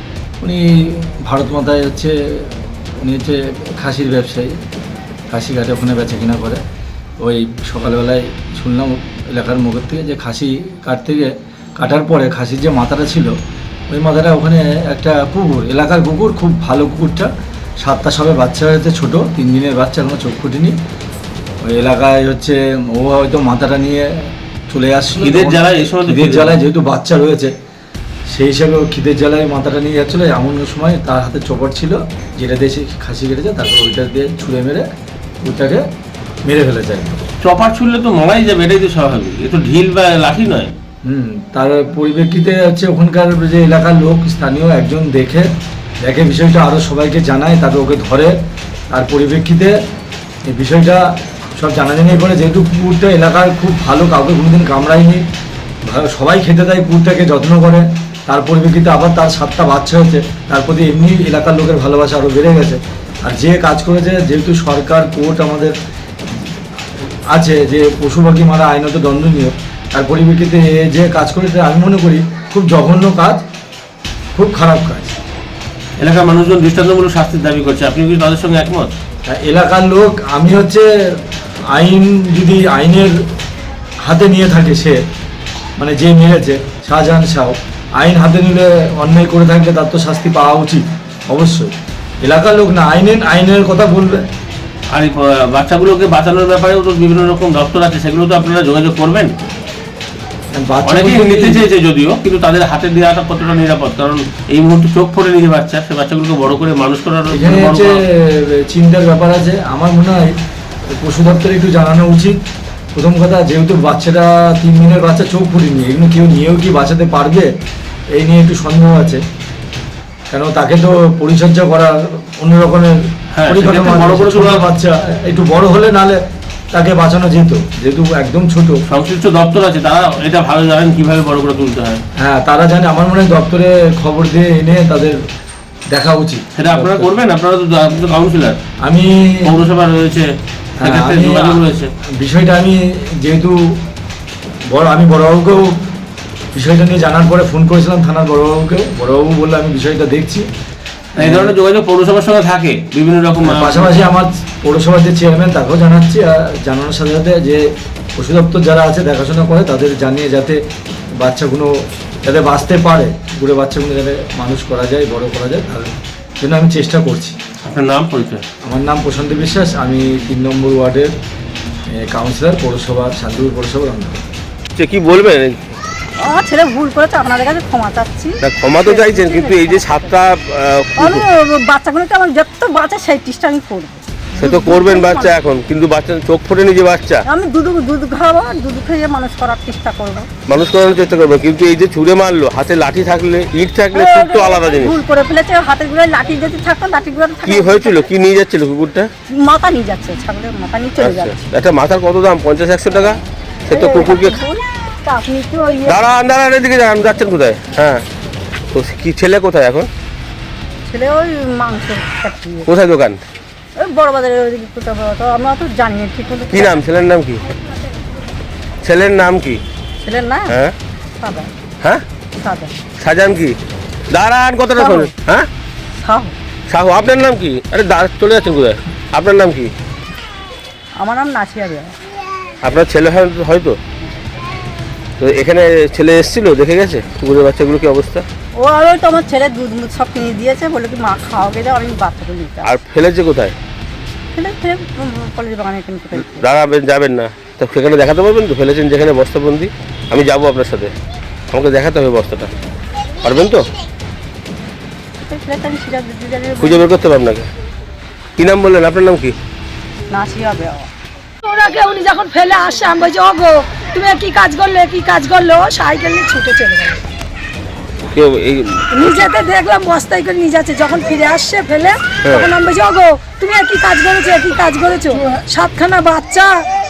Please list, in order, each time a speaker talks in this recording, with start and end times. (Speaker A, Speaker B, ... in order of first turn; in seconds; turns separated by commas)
Speaker A: 0.4-4.5, Speaker A: 5.3-6.6, Speaker A: 7.2-13.3, Speaker A: 13.9-17.3, Speaker A: 17.8-20.8, Speaker A: 21.6-24.1, Speaker A: 24.7-27.5, Speaker B: 25.2-26.6, Speaker A: 28.3-34.9, Speaker A: 35.4-35.8, Speaker A: 36.5-37.2, Speaker B: 37.4-40.7, Speaker A: 41.0-45.5, Speaker A: 46.0-48.3, Speaker A: 48.9-49.7, Speaker A: 50.5-51.0, Speaker A: 51.6-55.2, Speaker A: 55.9-65.8, Speaker A: 67.3-73.4, Speaker A: 74.3-75.2, Speaker B: 76.0-78.9, Speaker A: 79.3-80.9, Speaker A: 81.7-83.1, Speaker A: 84.0-85.0, Speaker A: 85.8-91.7, Speaker A: 92.2-94.2, Speaker B: 94.9-99.3, Speaker A: 100.6-101.7, Speaker B: 100.8-108.0, Speaker A: 107.3-110.2, Speaker A: 111.0-112.4, Speaker A: 113.0-117.5, Speaker A: 118.1-119.2, Speaker A: 120.3-126.2, Speaker B: 123.3-124.7, Speaker A: 126.7-128.8, Speaker B: 128.9-132.0, Speaker A: 132.2-135.2, Speaker A: 135.9-137.2, Speaker B: 136.6-138.6, Speaker A: 138.8-139.6, Speaker B: 139.4-141.9, Speaker A: 140.8-141.6, Speaker A: 142.2-143.7, Speaker A: 144.7-145.8, Speaker A: 146.6-150.5, Speaker A: 151.2-151.6, Speaker B: 151.2-154.0, Speaker A: 153.4-157.6, Speaker A: 158.2-160.6, Speaker A: 161.2-161.7, Speaker A: 162.2-167.4, Speaker B: 167.6-168.4, Speaker A: 168.7-171.1, Speaker A: 172.0-174.2, Speaker B: 174.8-175.6, Speaker C: 176.2-180.1, Speaker B: 178.4-181.2, Speaker C: 181.0-185.4, Speaker B: 184.3-187.2, Speaker C: 187.3-190.3, Speaker B: 190.5-195.0, Speaker C: 193.9-198.1, Speaker B: 197.4-199.1, Speaker C: 199.3-201.6, Speaker B: 200.9-204.4, Speaker C: 203.7-206.1, Speaker B: 205.8-208.1, Speaker B: 208.7-209.9, Speaker C: 210.9-212.7, Speaker B: 212.7-213.2, Speaker C: 213.8-216.8, Speaker B: 216.5-217.4, Speaker B: 218.8-219.6, Speaker C: 220.0-220.6, Speaker B: 220.5-220.7, Speaker C: 221.2-221.5, Speaker C: 222.4-222.8, Speaker B: 223.0-223.6, Speaker B: 224.1-225.5, Speaker C: 224.8-225.1, Speaker C: 226.0-226.3, Speaker B: 226.7-229.7, Speaker C: 231.0-231.9, Speaker B: 232.6-233.8, Speaker B: 235.2-238.3, Speaker C: 238.6-242.7, Speaker B: 242.6-243.6, Speaker C: 244.3-246.4, Speaker B: 246.2-250.9, Speaker B: 251.5-252.5, Speaker B: 253.2-253.7, Speaker C: 255.3-256.9, Speaker B: 256.6-257.5, Speaker B: 258.4-259.4, Speaker C: 260.1-260.9, Speaker D: 261.4-267.0, Speaker B: 268.1-269.3, Speaker D: 268.9-276.5, Speaker B: 272.2-272.6